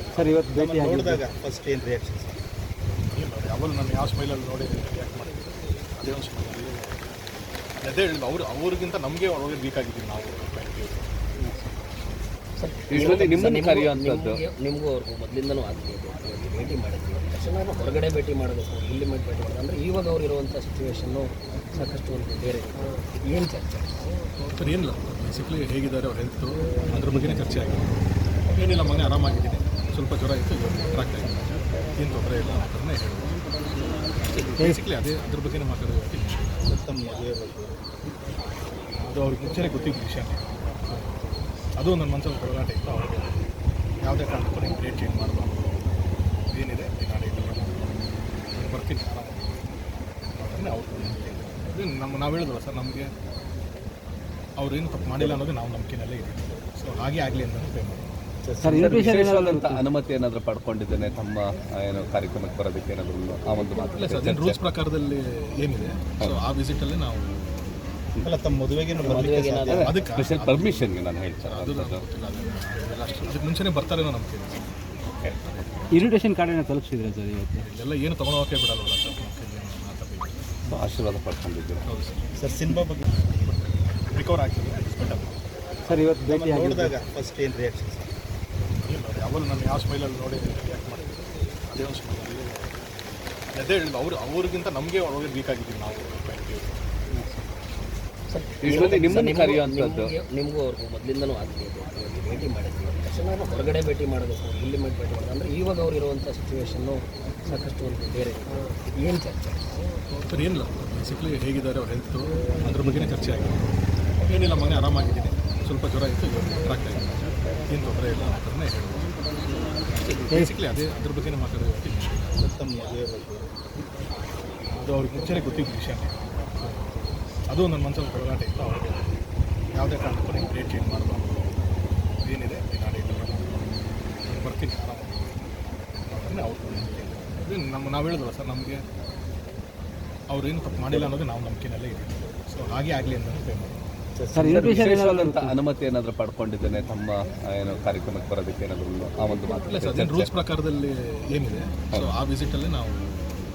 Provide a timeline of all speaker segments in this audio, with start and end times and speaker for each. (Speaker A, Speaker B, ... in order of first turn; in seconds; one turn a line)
Speaker A: 0.2-1.2
Speaker B: 0.5-2.4
Speaker C: 3.1-7.1
Speaker C: 7.8-11.2
Speaker D: 12.6-24.1
Speaker E: 12.9-14.4
Speaker C: 24.5-33.4
Speaker C: 34.3-36.6
Speaker B: 36.6-37.7
Speaker C: 39.0-41.2
Speaker C: 41.8-43.4
Speaker C: 44.0-45.8
Speaker C: 46.5-48.0
Speaker C: 48.5-49.7
Speaker C: 50.3-53.1
Speaker C: 54.6-58.0
Speaker B: 55.2-55.4
Speaker B: 58.4-58.9
Speaker A: 58.6-59.8
Speaker E: 58.7-64.6
Speaker C: 63.9-67.7
Speaker B: 68.2-69.9
Speaker E: 69.0-72.0
Speaker C: 69.7-74.7
Speaker C: 75.4-76.1
Speaker A: 75.9-77.6
Speaker C: 77.6-80.4
Speaker E: 80.7-81.8
Speaker C: 81.8-82.2
Speaker B: 82.4-83.0
Speaker C: 83.3-85.3
Speaker A: 85.9-86.9
Speaker B: 85.9-88.1
Speaker C: 88.8-91.1
Speaker C: 91.7-92.8
Speaker C: 93.5-96.8
Speaker D: 98.3-109.8
Speaker E: 98.6-100.1
Speaker C: 110.2-119.1
Speaker C: 120.1-122.3
Speaker B: 122.4-123.5
Speaker C: 124.8-129.1
Speaker C: 129.8-131.5
Speaker C: 132.2-133.7
Speaker C: 134.3-135.4
Speaker C: 136.0-138.8
Speaker C: 140.3-143.8
Speaker B: 140.9-141.2
Speaker B: 144.2-144.9
Speaker A: 144.3-145.5
Speaker E: 144.5-150.3
Speaker C: 149.7-153.4